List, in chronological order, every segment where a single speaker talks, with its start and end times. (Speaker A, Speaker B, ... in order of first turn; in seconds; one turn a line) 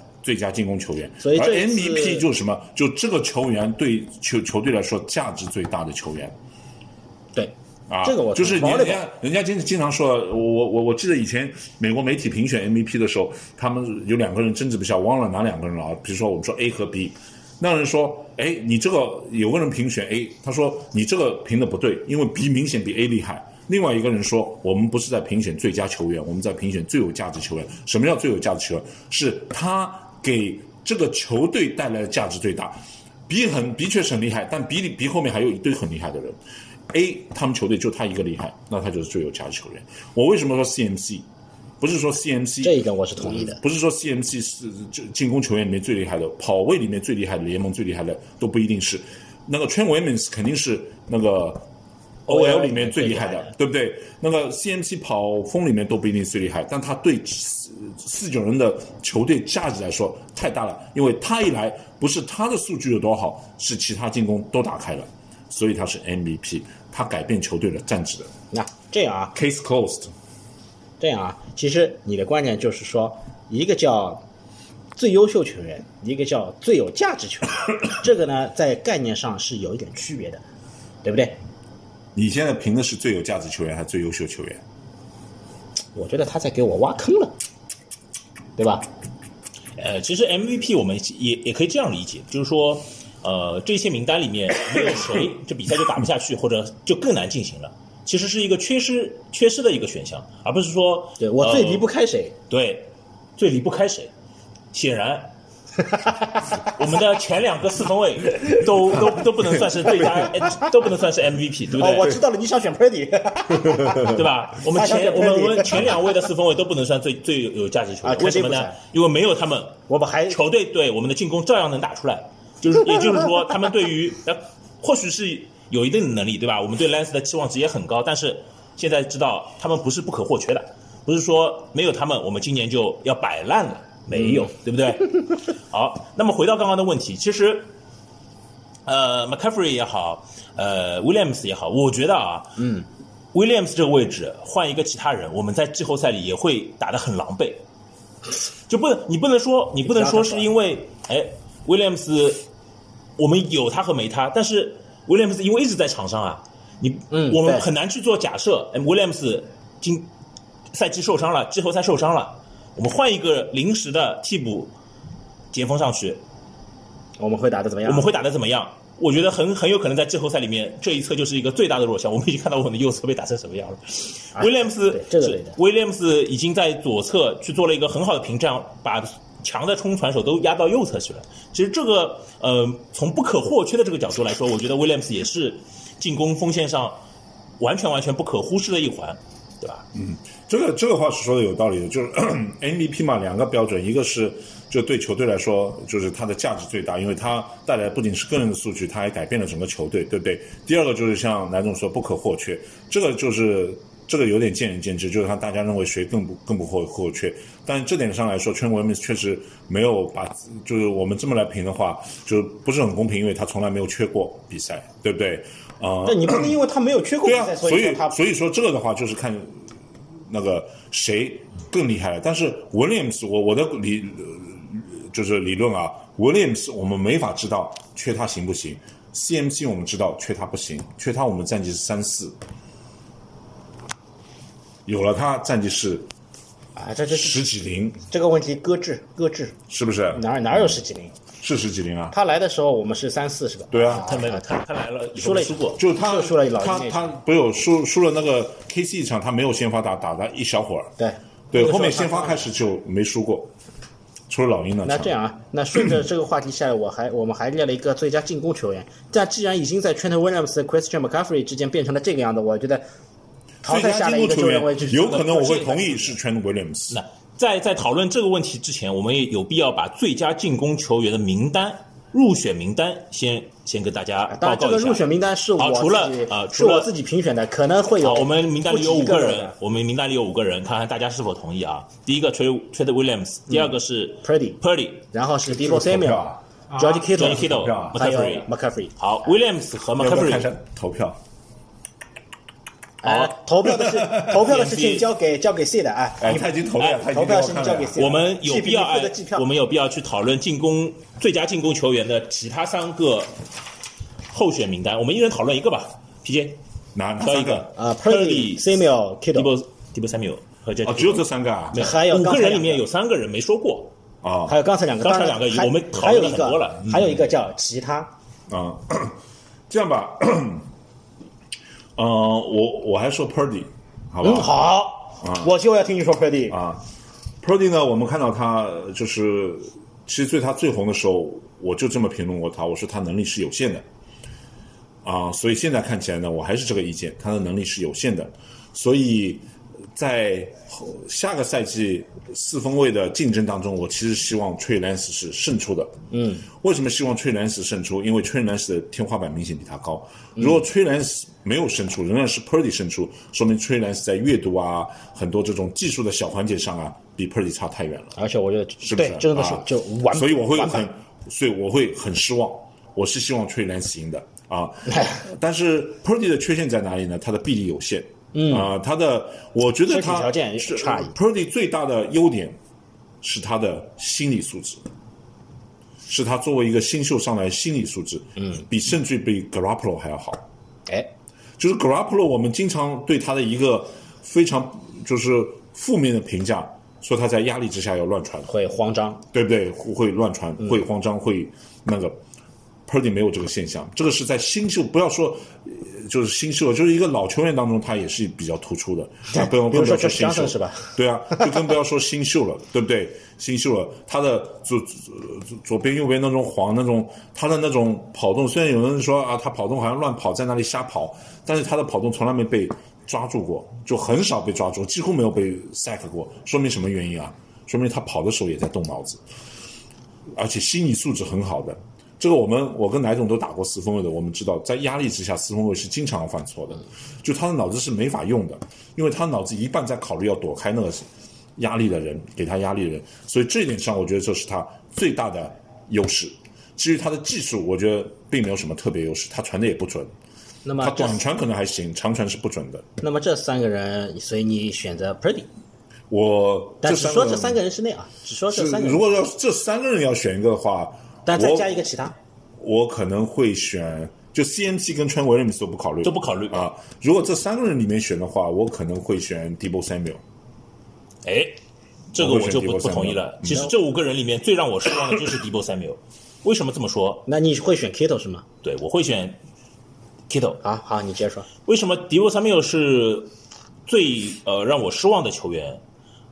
Speaker A: 0.2-6.3
Speaker B: 1.2-2.2
Speaker B: 7.3-9.0
Speaker A: 7.9-36.4
Speaker A: 36.9-41.2
Speaker A: 41.8-51.6
Speaker B: 42.6-43.6
Speaker B: 52.3-53.5
Speaker A: 52.3-68.3
Speaker B: 68.5-69.3
Speaker A: 69.3-70.1
Speaker B: 71.0-74.2
Speaker B: 74.9-80.4
Speaker B: 81.0-81.4
Speaker A: 82.1-84.6
Speaker B: 85.9-87.3
Speaker B: 88.6-88.8
Speaker C: 89.8-101.9
Speaker B: 101.2-102.3
Speaker C: 102.5-104.1
Speaker C: 104.7-105.3
Speaker C: 106.6-112.2
Speaker B: 111.7-116.1
Speaker C: 114.0-137.7
Speaker B: 118.0-118.8
Speaker B: 119.9-120.4
Speaker C: 138.8-142.7
Speaker B: 142.6-142.8
Speaker C: 143.3-147.6
Speaker C: 148.7-152.4
Speaker B: 149.8-150.5
Speaker C: 153.2-160.1
Speaker B: 157.1-157.7
Speaker C: 160.7-164.7
Speaker C: 165.5-166.2
Speaker B: 167.2-168.1
Speaker C: 167.8-187.0
Speaker B: 174.3-175.6
Speaker C: 187.6-189.8
Speaker A: 189.9-216.6
Speaker B: 216.0-218.2
Speaker A: 217.2-219.6
Speaker A: 220.3-232.4
Speaker A: 234.8-236.1
Speaker B: 236.8-237.4
Speaker A: 237.1-238.0
Speaker B: 238.1-239.6
Speaker A: 239.7-240.2
Speaker B: 240.1-241.1
Speaker A: 241.4-242.1
Speaker B: 242.1-244.4
Speaker A: 243.7-244.1
Speaker C: 244.0-245.8
Speaker B: 245.2-247.1
Speaker A: 245.8-250.9
Speaker B: 251.0-252.4
Speaker A: 251.5-253.5
Speaker A: 254.3-255.1
Speaker B: 254.8-262.8
Speaker A: 263.6-267.0
Speaker B: 263.6-266.1
Speaker C: 266.9-275.0
Speaker B: 274.3-279.5
Speaker C: 275.6-276.9
Speaker C: 278.0-285.1
Speaker B: 284.2-288.9
Speaker A: 285.5-288.0
Speaker C: 287.0-290.5
Speaker A: 290.0-291.2
Speaker B: 293.0-299.4
Speaker C: 293.0-293.3
Speaker C: 294.2-295.1
Speaker A: 296.2-298.0
Speaker C: 297.9-303.3
Speaker C: 304.3-306.6
Speaker A: 306.9-307.6
Speaker C: 307.2-308.8
Speaker B: 307.6-309.5
Speaker C: 309.3-313.9
Speaker A: 310.8-311.8
Speaker B: 311.7-312.8
Speaker A: 314.2-314.5
Speaker B: 314.5-318.1
Speaker C: 315.0-317.2
Speaker A: 318.5-319.2
Speaker A: 319.7-320.7
Speaker A: 321.9-324.5
Speaker B: 324.2-326.6
Speaker A: 325.2-325.5
Speaker A: 326.5-326.8
Speaker A: 327.4-333.8
Speaker A: 335.0-345.9
Speaker B: 346.1-346.5
Speaker A: 346.5-358.1
Speaker B: 350.4-350.6
Speaker B: 358.1-360.9
Speaker A: 358.8-372.6
Speaker B: 368.3-368.7
Speaker B: 369.9-371.1
Speaker A: 373.2-374.8
Speaker A: 376.0-380.4
Speaker A: 381.6-388.5
Speaker B: 388.5-389.2
Speaker A: 389.3-392.2
Speaker A: 392.9-419.2
Speaker B: 399.3-401.5
Speaker A: 420.3-440.1
Speaker B: 440.6-441.2
Speaker A: 440.8-442.8
Speaker B: 443.0-445.5
Speaker A: 446.1-447.6
Speaker B: 446.8-449.1
Speaker A: 448.5-451.7
Speaker B: 451.2-452.1
Speaker A: 452.6-460.2
Speaker C: 456.0-456.7
Speaker C: 461.2-461.6
Speaker C: 462.1-467.2
Speaker A: 462.1-463.7
Speaker B: 467.3-468.4
Speaker C: 468.6-469.4
Speaker C: 470.3-470.6
Speaker B: 470.6-471.5
Speaker C: 471.6-473.3
Speaker C: 473.9-475.8